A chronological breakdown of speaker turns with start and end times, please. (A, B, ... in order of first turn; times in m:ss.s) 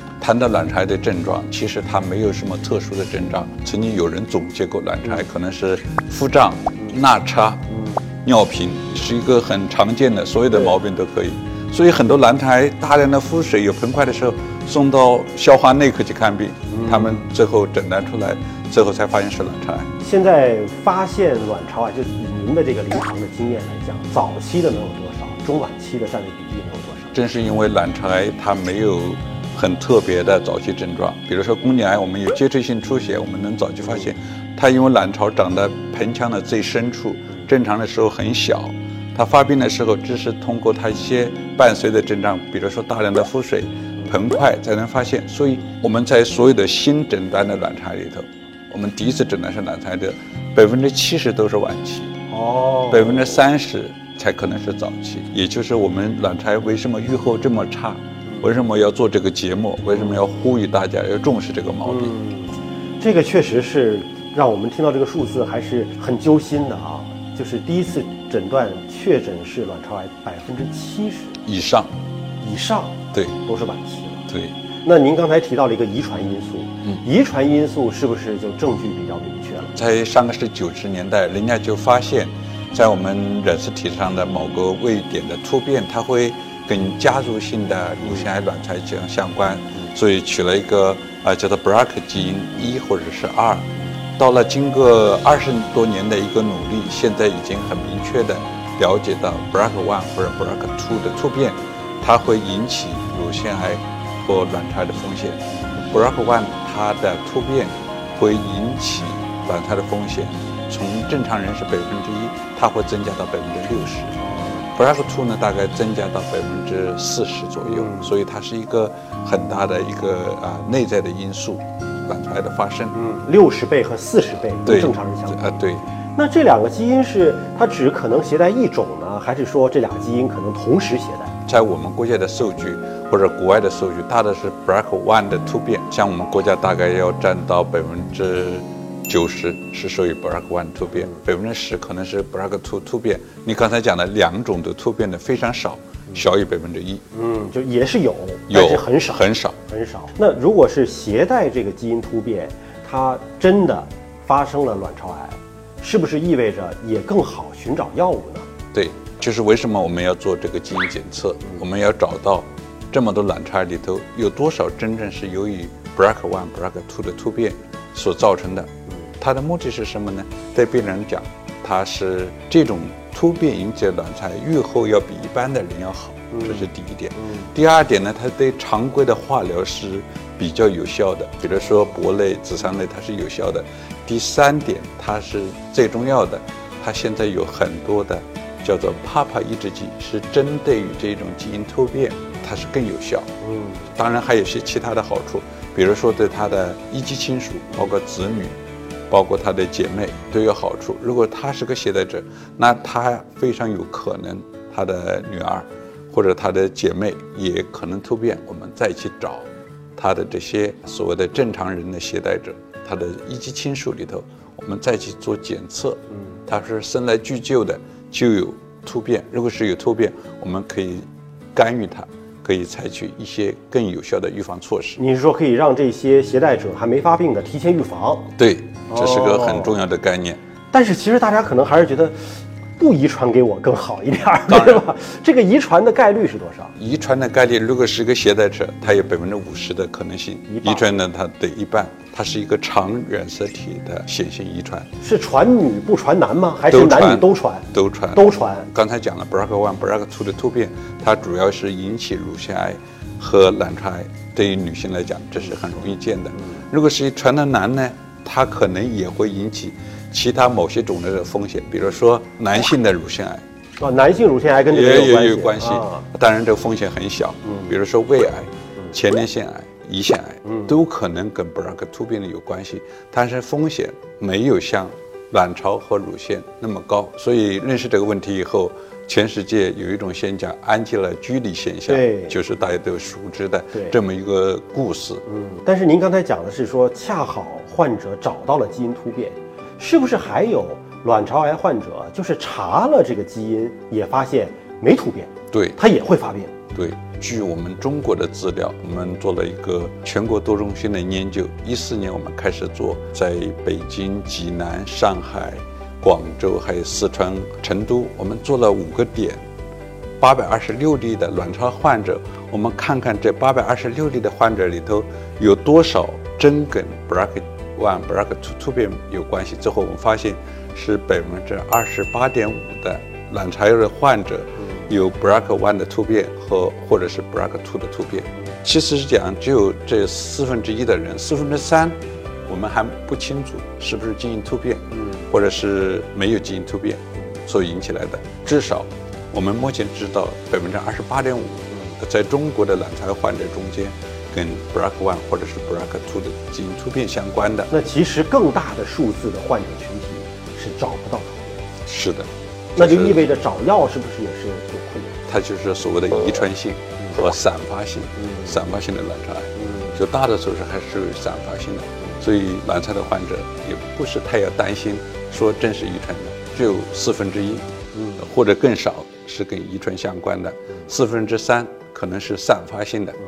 0:00.2-0:07.6 A
0:08.2-0:19.9 A
0:16.7-0:17.2 B
0:20.0-0:27.2 B
0:27.1-0:52.1 A
0:52.3-0:53.4 B
0:52.9-1:02.2 A
1:01.8-1:11.4 B
1:11.4-1:11.9 A
1:12.4-1:14.3 B
1:14.3-1:14.5 A
1:14.8-1:19.8 B
1:19.8-1:54.2 A
1:54.2-1:54.7 B
1:54.8-2:03.0 A
1:57.6-1:58.1 B
2:02.9-2:05.6 B
2:04.7-2:05.8 A
2:06.2-2:11.4 B
2:11.5-2:27.0 A
2:27.1-2:38.5 B
2:28.5-2:29.6 A
2:38.7-3:13.3 A
2:56.3-2:56.7 B
2:57.2-2:57.5 B
3:13.4-3:13.8 B
3:13.9-3:18.6 A
3:19.1-3:45.0 A
3:45.0-3:48.3 B
3:48.4-3:50.4 A
3:48.9-3:49.8 B
3:50.7-3:56.8 B
3:54.5-3:54.9 A
3:56.8-4:04.9 A
4:00.5-4:00.9 B
4:05.0-4:08.7 B
4:06.7-4:23.4 A
4:23.8-4:26.0 B
4:24.7-4:45.2 A
4:41.9-4:42.4 B
4:45.3-4:56.5 B
4:55.5-4:55.8 A
4:56.7-5:09.4 A
5:10.2-5:47.7 A
5:35.0-5:35.2 B
5:47.7-5:51.7 B
5:51.9-5:53.2 A
5:52.8-5:55.2 B
5:55.3-6:07.7 A
5:58.2-5:58.5 B
5:59.6-6:00.0 B
6:08.0-6:08.2 B
6:08.2-6:13.2 A